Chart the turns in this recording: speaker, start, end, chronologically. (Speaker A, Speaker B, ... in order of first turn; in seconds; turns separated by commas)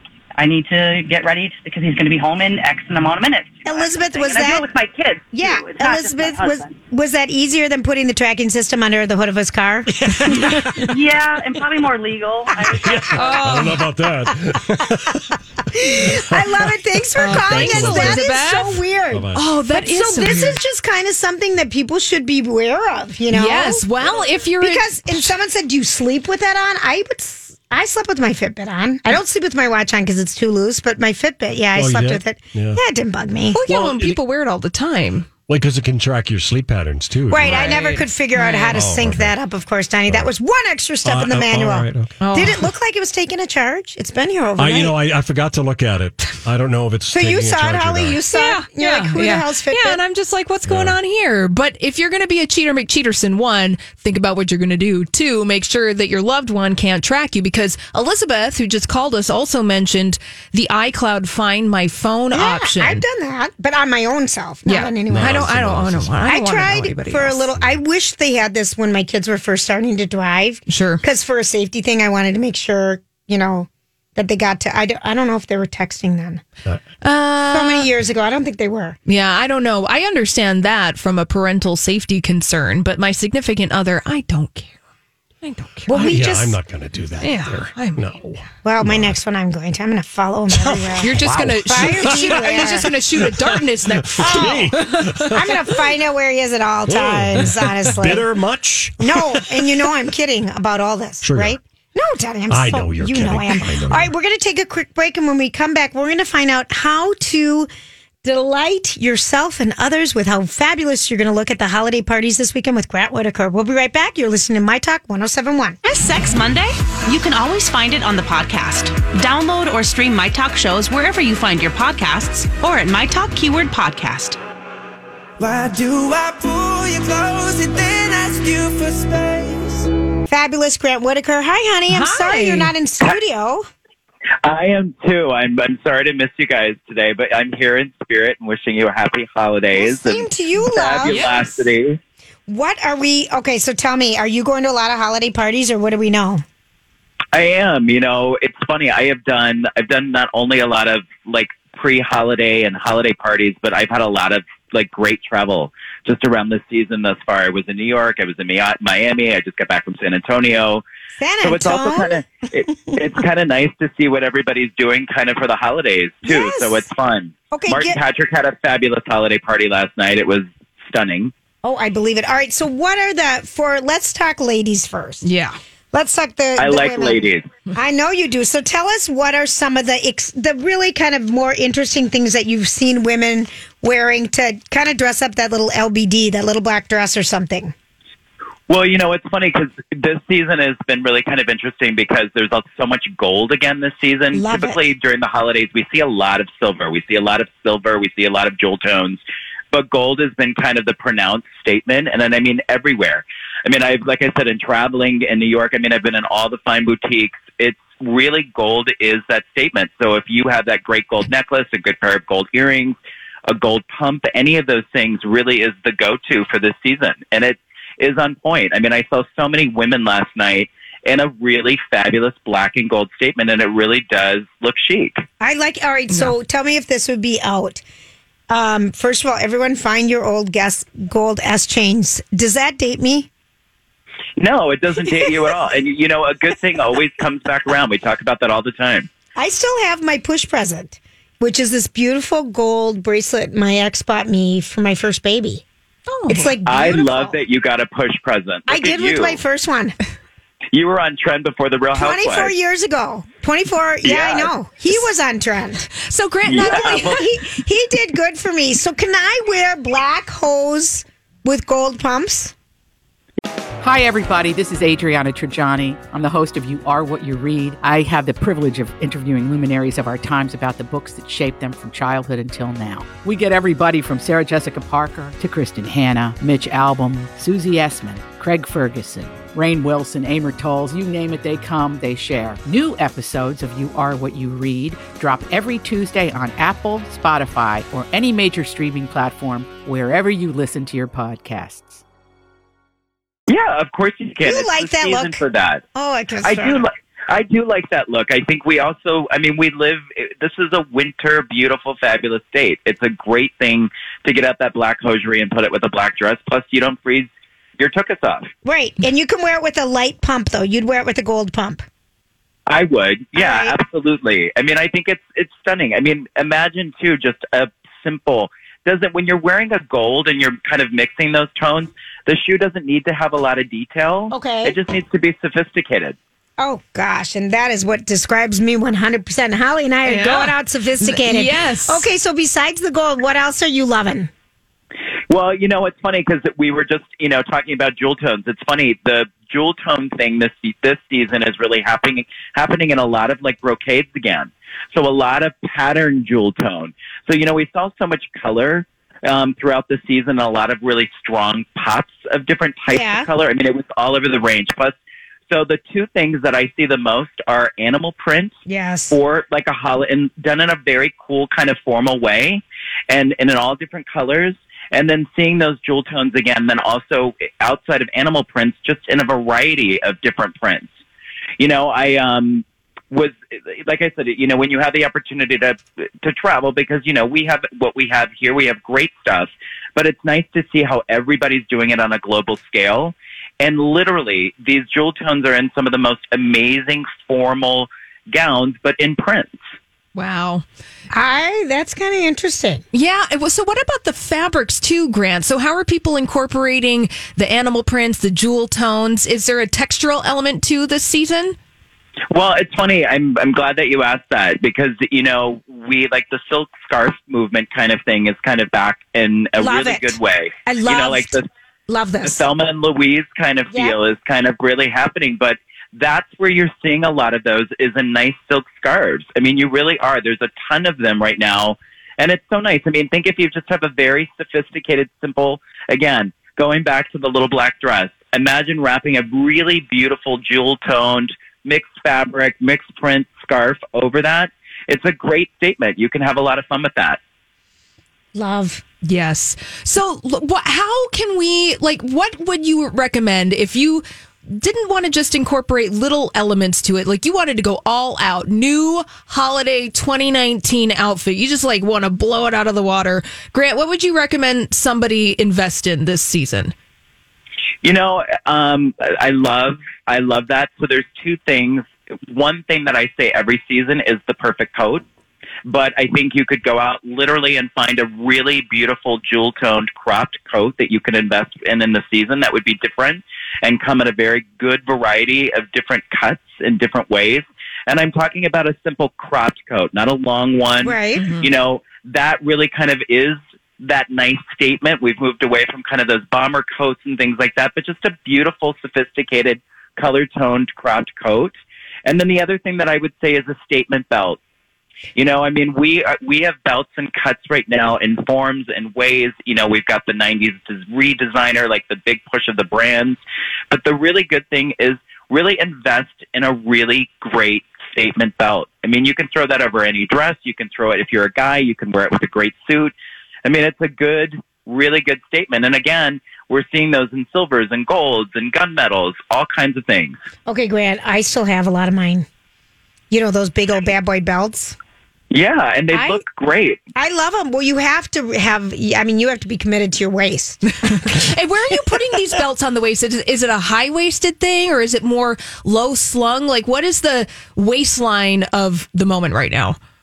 Speaker A: 0.4-6.7, Speaker B: 3.6-4.7, Speaker B: 5.3-10.0, Speaker C: 9.9-10.9, Speaker A: 10.3-13.3, Speaker B: 12.7-13.6, Speaker C: 12.7-18.3, Speaker D: 13.1-13.9, Speaker B: 15.7-24.1, Speaker D: 17.2-18.8, Speaker C: 19.1-19.5, Speaker D: 19.3-20.6, Speaker D: 23.3-25.3, Speaker B: 24.6-33.6, Speaker C: 31.7-32.8, Speaker D: 33.5-35.3, Speaker C: 33.7-34.2, Speaker C: 35.5-37.8, Speaker B: 37.3-44.9, Speaker D: 37.4-38.8, Speaker C: 38.7-39.3, Speaker C: 41.0-42.2, Speaker D: 42.2-42.6, Speaker C: 44.6-48.2, Speaker B: 47.1-50.0, Speaker D: 48.3-63.0, Speaker C: 50.6-51.0, Speaker B: 62.3-65.6, Speaker D: 64.7-67.5, Speaker C: 65.1-66.2, Speaker B: 66.2-76.4, Speaker D: 70.7-71.0, Speaker D: 77.0-77.9, Speaker B: 77.4-79.0, Speaker D: 79.1-84.8, Speaker D: 85.4-86.2, Speaker B: 85.9-86.6, Speaker C: 85.9-89.2, Speaker D: 87.2-88.0, Speaker B: 88.6-92.9, Speaker C: 90.5-95.6, Speaker D: 91.0-95.3, Speaker B: 94.2-94.7, Speaker B: 95.3-98.3, Speaker C: 96.9-99.6, Speaker B: 99.0-107.7, Speaker C: 101.2-101.6, Speaker C: 102.5-104.1, Speaker B: 108.2-115.8, Speaker E: 115.8-124.4, Speaker F: 125.4-129.9, Speaker B: 130.3-133.7, Speaker D: 131.9-132.7, Speaker G: 134.4-142.0, Speaker B: 139.7-141.4, Speaker D: 141.0-141.6, Speaker B: 142.5-146.4, Speaker G: 147.3-160.8, Speaker B: 161.2-162.9, Speaker G: 161.4-171.3, Speaker B: 166.2-166.9, Speaker B: 167.5-168.0, Speaker B: 171.6-175.2, Speaker D: 175.2-175.6, Speaker B: 175.9-177.2, Speaker G: 176.6-177.4, Speaker B: 177.7-187.7, Speaker G: 188.7-199.2, Speaker B: 194.3-194.8, Speaker G: 199.7-225.2, Speaker B: 225.4-227.8, Speaker B: 228.5-233.3, Speaker G: 234.4-239.1, Speaker B: 239.3-245.6, Speaker D: 246.1-246.5, Speaker B: 246.3-247.4, Speaker G: 246.6-249.4, Speaker B: 248.7-249.9, Speaker G: 250.7-252.5, Speaker B: 251.9-255.9, Speaker G: 254.0-254.5, Speaker D: 256.0-257.3, Speaker G: 256.4-257.2, Speaker B: 256.5-262.5, Speaker H: 263.8-292.0, Speaker G: 293.5-295.8, Speaker B: 294.4-295.4, Speaker B: 295.9-296.8, Speaker G: 296.4-308.5, Speaker B: 308.6-311.8, Speaker G: 312.7-326.1, Speaker B: 313.3-313.8, Speaker B: 324.3-324.8, Speaker B: 326.6-334.3, Speaker D: 330.0-332.1, Speaker G: 335.3-354.9, Speaker B: 352.9-353.3, Speaker G: 355.5-358.6, Speaker B: 358.6-359.2, Speaker G: 359.1-370.9, Speaker G: 371.6-389.6, Speaker D: 390.1-390.6, Speaker B: 391.1-392.8, Speaker D: 392.9-401.6, Speaker G: 402.3-411.5, Speaker B: 409.6-412.4, Speaker G: 412.2-437.2, Speaker B: 413.7-414.0, Speaker B: 438.3-438.8, Speaker D: 439.0-456.7, Speaker G: 457.8-465.0, Speaker G: 465.6-491.5, Speaker B: 480.8-481.3, Speaker D: 481.1-481.5, Speaker G: 492.1-494.4, Speaker G: 495.1-512.9, Speaker G: 513.4-520.2, Speaker B: 520.5-522.2, Speaker B: 523.1-524.8, Speaker G: 525.3-526.8, Speaker B: 525.9-526.2, Speaker B: 526.9-532.0, Speaker D: 530.8-539.8